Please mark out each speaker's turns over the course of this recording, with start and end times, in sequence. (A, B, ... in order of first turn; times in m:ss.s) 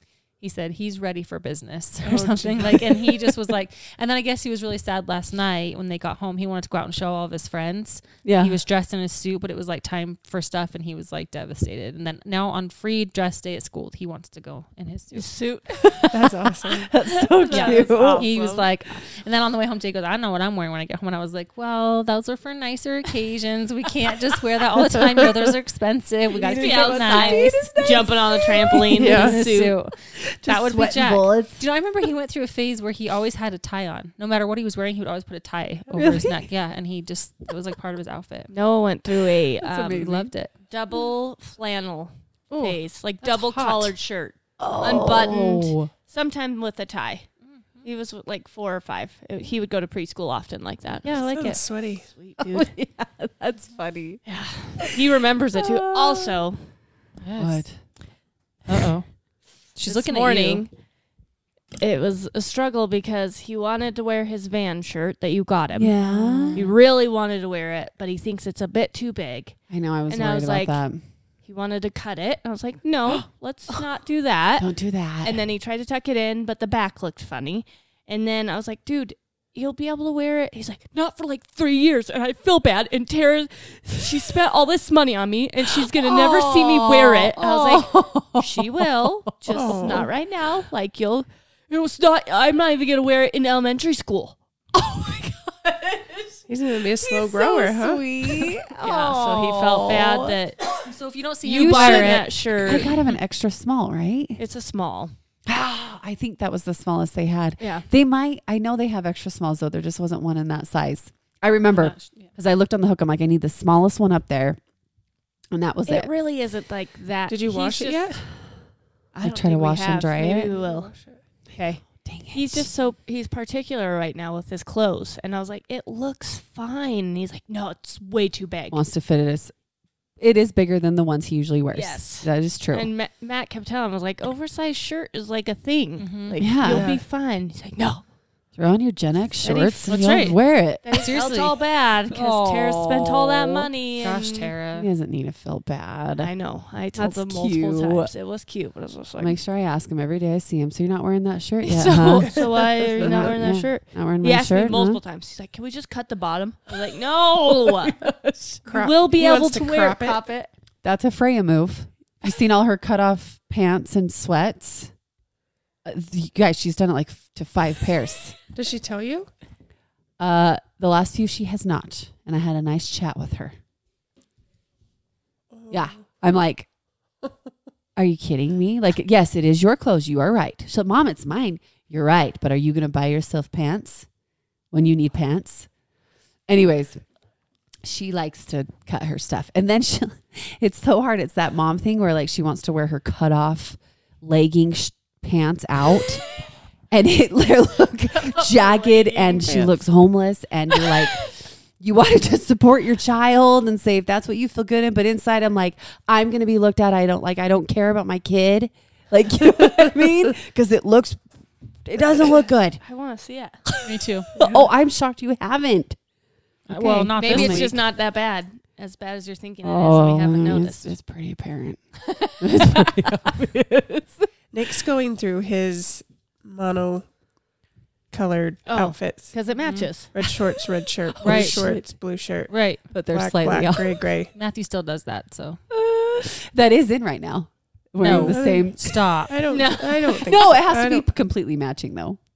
0:00.4-0:15.3 A
0:02.0-0:03.3 B
0:08.2-0:08.6 C
0:15.1-0:15.8 D
0:15.9-0:18.2 C
0:16.1-0:16.9 B
0:17.1-0:18.7 D
0:17.5-0:27.9 A
0:26.4-0:26.9 B
0:26.5-0:29.8 D
0:26.6-0:29.3 C
0:29.0-0:29.4 B
0:29.0-0:38.5 A
0:30.4-0:31.6 C
0:35.9-0:36.4 C
0:38.5-0:40.0 D
0:39.6-0:40.3 C
0:39.9-0:40.5 A
0:40.7-0:47.3 D
0:42.5-0:43.9 A
0:44.6-0:45.9 C
0:47.5-0:47.8 A
0:47.8-0:52.7 D
0:51.0-0:51.6 A
0:51.1-0:52.1 B
0:52.4-0:54.2 C
0:54.2-0:56.7 D
0:55.6-0:56.3 C
0:57.2-0:57.6 A
0:57.4-0:57.8 C
0:58.7-0:59.1 A
0:59.7-1:00.6 A
0:59.8-1:00.7 D
1:01.8-1:06.0 D
1:05.7-1:06.7 C
1:06.0-1:06.7 A
1:06.5-1:10.8 D
1:09.7-1:11.0 C
1:11.4-1:14.7 D
1:13.1-1:13.8 C
1:14.6-1:15.5 C
1:15.2-1:34.4 D
1:25.7-1:30.0 C
1:29.5-1:30.1 B
1:34.7-1:36.4 C
1:36.5-1:38.0 B
1:37.0-1:40.4 C
1:38.8-1:40.7 D
1:40.8-1:43.2 A
1:41.4-1:43.0 D
1:41.5-1:44.4 C
1:44.4-1:45.1 D
1:45.4-1:54.6 C
1:47.6-1:47.8 D
1:51.7-1:52.3 A
1:55.5-1:56.1 C
1:55.9-1:58.2 D
1:57.3-1:58.2 B
1:59.2-2:00.9 D
1:59.2-2:00.5 C
2:00.4-2:01.2 B
2:01.5-2:08.8 D
2:02.0-2:02.7 C
2:08.7-2:09.5 C
2:10.2-2:12.9 C
2:11.7-2:18.0 D
2:16.0-2:16.4 A
2:16.4-2:16.9 C
2:16.6-2:17.0 B
2:18.5-2:21.0 C
2:19.4-2:20.1 D
2:19.9-2:21.5 A
2:20.8-2:24.5 D
2:22.1-2:23.7 C
2:24.0-2:24.9 A
2:24.7-2:26.3 C
2:26.2-2:29.4 D
2:26.9-2:28.1 C
2:29.2-2:35.0 C
2:31.6-2:38.0 D
2:32.2-2:33.4 B
2:37.6-2:38.6 C
2:38.6-2:40.2 B
2:38.7-2:40.5 D
2:40.8-2:44.9 C
2:45.8-2:48.4 C
2:48.5-2:49.3 B
2:50.2-2:53.6 C
2:55.5-2:55.8 B
2:55.7-2:56.7 C
2:58.0-3:04.1 C
3:04.7-3:05.7 C
3:06.5-3:07.0 C
3:07.8-3:16.2 C
3:16.9-3:31.2 C
3:18.1-3:19.7 D
3:31.8-3:32.8 C
3:32.8-3:33.7 D
3:33.7-3:36.0 C
3:33.8-3:34.3 A
3:34.4-3:34.7 B
3:36.7-3:37.8 A
3:36.7-3:37.7 C
3:37.2-3:40.9 D
3:39.6-3:44.3 C
3:44.5-3:47.0 B
3:48.1-3:49.3 B
3:48.6-3:50.3 D
3:49.6-3:49.9 A
3:50.1-3:54.3 B
3:51.2-3:51.8 C
3:51.2-3:51.8 A
3:52.5-3:52.8 A
3:52.9-3:54.1 C
3:54.3-3:55.6 A
3:55.7-3:59.2 C
3:58.0-3:59.4 A
3:58.0-4:01.0 B
3:59.5-4:00.3 D
4:00.1-4:02.2 C